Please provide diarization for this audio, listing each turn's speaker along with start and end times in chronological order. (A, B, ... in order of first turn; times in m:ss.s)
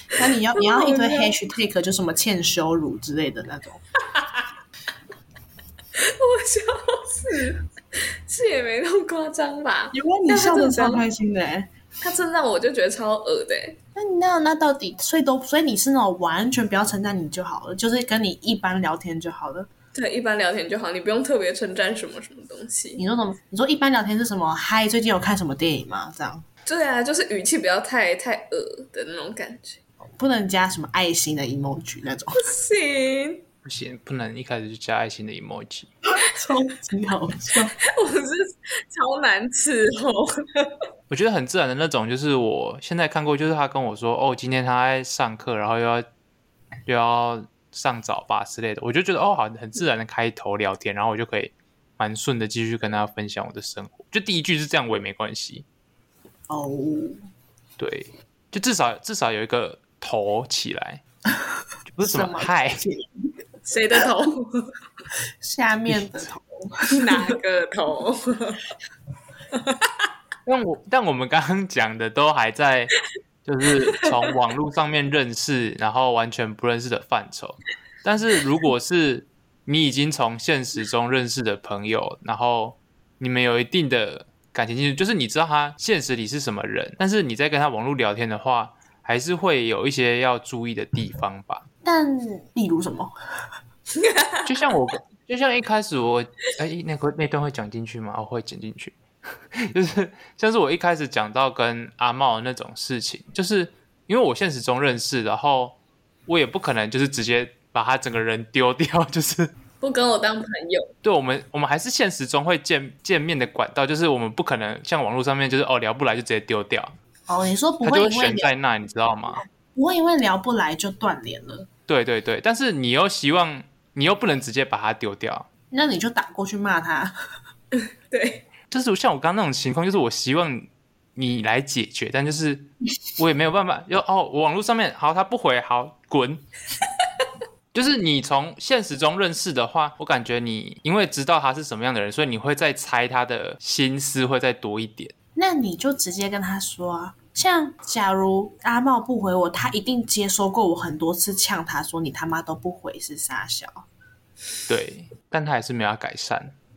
0:00.1-0:03.8 A
0:00.5-0:01.3 B
0:05.9-0:11.0 B
0:09.9-0:11.7 A
0:12.0-0:13.8 B
0:14.0-0:19.7 A
0:19.9-0:23.0 B
0:23.0-0:26.4 A
0:26.6-0:29.8 B
0:30.2-0:32.5 A
0:32.4-0:33.4 B
0:33.6-0:35.9 C
0:36.2-0:37.7 A
0:37.8-0:40.7 B
0:41.1-0:46.0 C
0:46.8-0:55.6 C
0:56.5-0:57.2 A
0:57.8-1:01.0 C
1:01.8-1:02.8 C
1:02.0-1:03.1 A
1:03.6-1:04.7 B
1:05.4-1:07.2 A
1:06.9-1:08.6 B
1:09.5-1:09.8 B
1:10.4-1:12.9 C
1:13.4-1:31.7 C
1:31.8-1:33.1 A
1:34.0-1:34.4 B
1:34.4-1:39.0 C
1:39.5-1:49.5 C
1:49.8-1:50.9 B
1:51.0-1:56.9 C
1:57.3-1:58.5 A
1:57.8-1:59.4 C
1:59.7-2:01.7 A
2:01.9-2:05.4 C
2:05.7-2:07.1 A
2:08.1-2:08.4 B
2:08.7-2:16.4 C
2:17.7-2:25.1 C
2:25.3-2:33.8 A
2:34.7-2:36.6 C